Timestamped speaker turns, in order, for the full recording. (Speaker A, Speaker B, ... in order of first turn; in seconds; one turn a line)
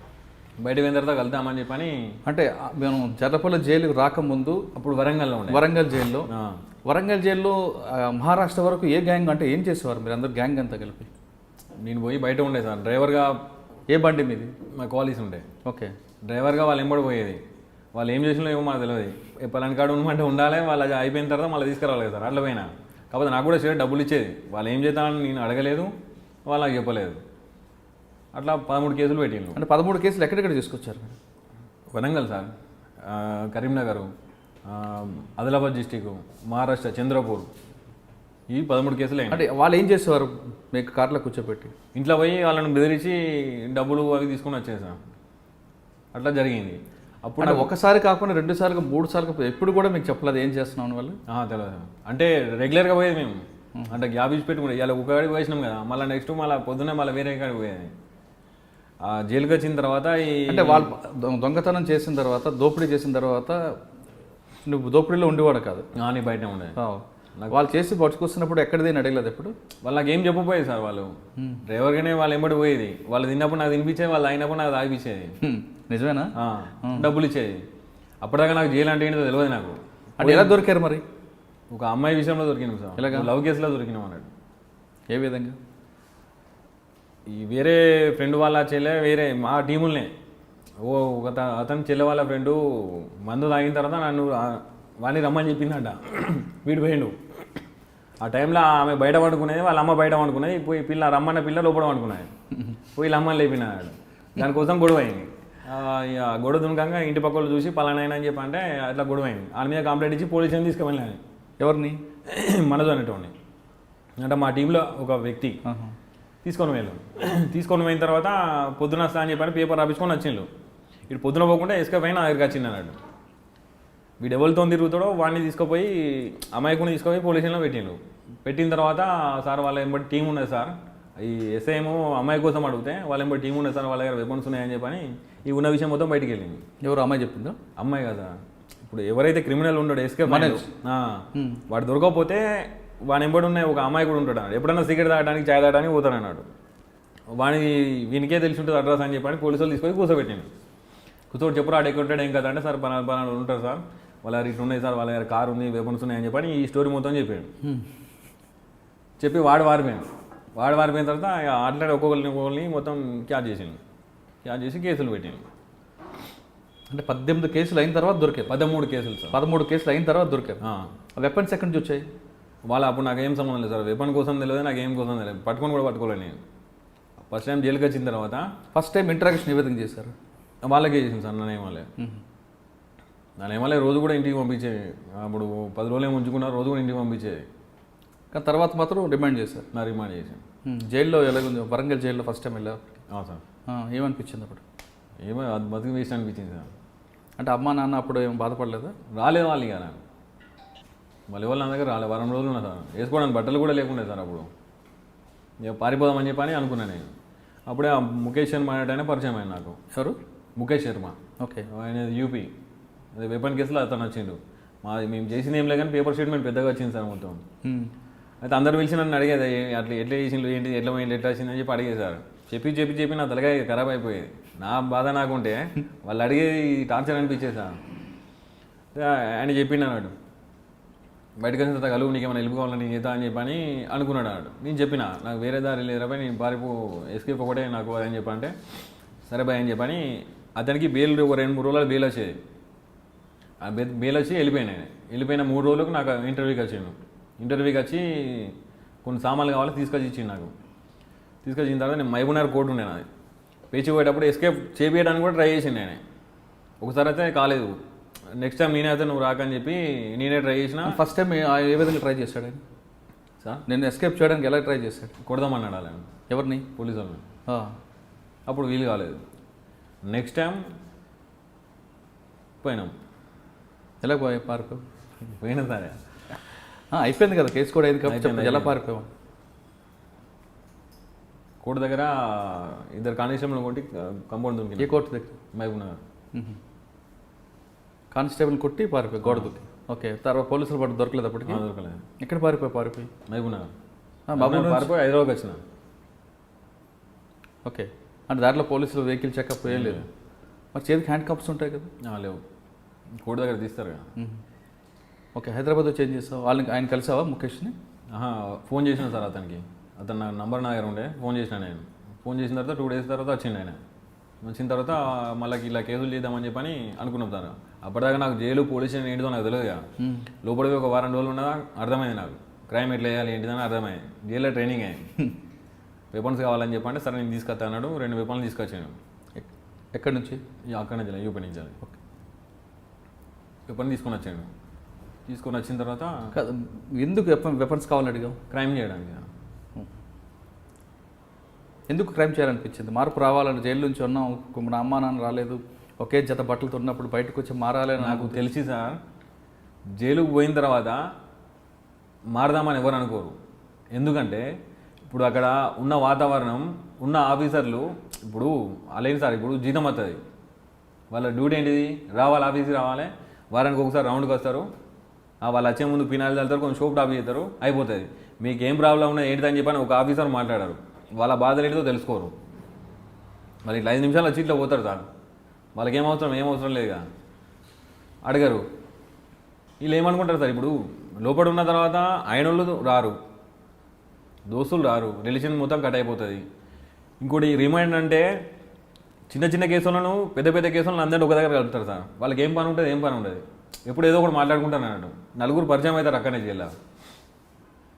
Speaker A: 0.6-2.0
Speaker B: 2.3-4.7
Speaker A: 4.8-5.7
Speaker B: 5.5-6.3
Speaker A: 6.3-6.6
Speaker B: 6.9-11.1
Speaker A: 11.8-13.4
Speaker B: 13.9-14.5
Speaker A: 14.8-15.5
Speaker B: 15.6-15.9
Speaker A: 16.2-17.4
Speaker A: 17.9-25.9
Speaker A: 26.4-27.2
Speaker A: 28.3-29.6
Speaker B: 29.6-31.2
Speaker A: 31.9-32.5
Speaker A: 33.0-34.1
Speaker A: 34.7-37.5
Speaker A: 38.5-39.4
Speaker B: 39.3-41.7
Speaker A: 42.0-45.0
Speaker A: 46.1-47.7
Speaker B: 47.4-51.2
Speaker A: 51.3-57.9
Speaker A: 59.0-60.9
Speaker B: 60.5-63.6
Speaker B: 64.7-65.9
Speaker A: 66.0-66.8
Speaker B: 66.8-69.5
Speaker A: 67.4-67.6
Speaker A: 69.8-75.4
Speaker B: 75.4-77.1
Speaker A: 76.4-77.6
Speaker A: 78.2-80.6
Speaker B: 80.2-81.0
Speaker A: 81.7-84.3
Speaker B: 83.0-83.3
Speaker B: 85.1-85.6
Speaker A: 87.3-90.1
Speaker A: 90.8-97.2
Speaker A: 98.2-102.3
Speaker A: 103.0-111.2
Speaker B: 111.6-112.0
Speaker A: 112.3-113.3
Speaker A: 114.2-115.6
Speaker B: 115.7-116.0
Speaker A: 116.4-120.5
Speaker A: 121.1-123.0
Speaker A: 124.2-136.6
Speaker B: 136.8-137.6
Speaker A: 137.8-146.5
Speaker B: 140.3-140.7
Speaker B: 141.3-141.6
Speaker A: 147.3-150.5
Speaker A: 151.3-157.5
Speaker A: 159.2-163.8
Speaker A: 164.4-165.4
Speaker B: 166.9-168.5
Speaker A: 168.5-169.4
Speaker B: 169.3-170.6
Speaker A: 170.6-170.9
Speaker B: 171.2-172.1
Speaker A: 172.7-176.4
Speaker A: 177.3-178.5
Speaker B: 178.8-180.1
Speaker A: 180.6-181.9
Speaker A: 183.4-187.5
Speaker B: 188.3-189.7
Speaker A: 189.7-190.4
Speaker B: 190.7-192.9
Speaker A: 193.1-193.4
Speaker B: 193.7-194.6
Speaker A: 195.2-196.7
Speaker B: 197.4-198.9
Speaker A: 199.1-200.0
Speaker A: 201.3-204.5
Speaker A: 205.6-207.1
Speaker A: 207.7-209.8
Speaker A: 210.6-211.2
Speaker B: 211.4-211.7
Speaker A: 211.7-212.5
Speaker A: 213.2-217.4
Speaker B: 217.6-217.9
Speaker A: 218.4-227.8
Speaker A: 228.9-230.2
Speaker A: 231.4-238.5
Speaker A: 239.3-242.4
Speaker A: 243.6-250.5
Speaker A: 251.4-253.1
Speaker A: 253.7-256.0
Speaker A: 256.8-257.8
Speaker A: 258.4-261.0
Speaker B: 260.9-262.6
Speaker B: 263.7-265.1
Speaker A: 265.2-266.1
Speaker B: 266.3-266.7
Speaker A: 266.8-267.2
Speaker B: 267.5-267.8
Speaker A: 268.5-269.2
Speaker A: 270.1-270.6
Speaker A: 272.6-272.9
Speaker B: 274.0-274.8
Speaker A: 275.3-276.0
Speaker B: 276.9-279.1
Speaker A: 278.0-278.8
Speaker A: 281.6-285.0
Speaker B: 284.8-285.4
Speaker A: 285.5-286.0
Speaker B: 288.1-291.6
Speaker A: 289.2-289.6
Speaker A: 291.4-292.0
Speaker B: 292.2-293.1
Speaker A: 293.3-293.7
Speaker B: 294.3-294.9
Speaker A: 294.4-295.6
Speaker B: 297.6-300.1
Speaker A: 299.7-300.1
Speaker B: 300.7-301.9
Speaker A: 302.0-302.4
Speaker A: 303.2-304.1
Speaker B: 305.4-307.8
Speaker A: 308.1-313.8
Speaker A: 314.4-319.9
Speaker B: 320.0-320.3
Speaker A: 320.4-325.1
Speaker A: 326.1-329.0
Speaker B: 329.4-330.4
Speaker A: 330.7-331.8
Speaker A: 333.7-334.5
Speaker A: 335.3-336.3
Speaker B: 336.3-338.4
Speaker A: 338.5-339.3
Speaker B: 341.9-348.4
Speaker A: 348.0-349.0
Speaker A: 350.0-351.0
Speaker A: 352.3-353.4
Speaker A: 353.9-354.5
Speaker A: 355.1-360.2
Speaker A: 361.1-364.7
Speaker A: 365.4-372.3
Speaker A: 373.6-375.0
Speaker A: 375.8-377.0
Speaker A: 378.2-378.7
Speaker A: 379.8-383.2
Speaker A: 384.5-386.4
Speaker A: 387.2-388.3
Speaker A: 389.3-396.7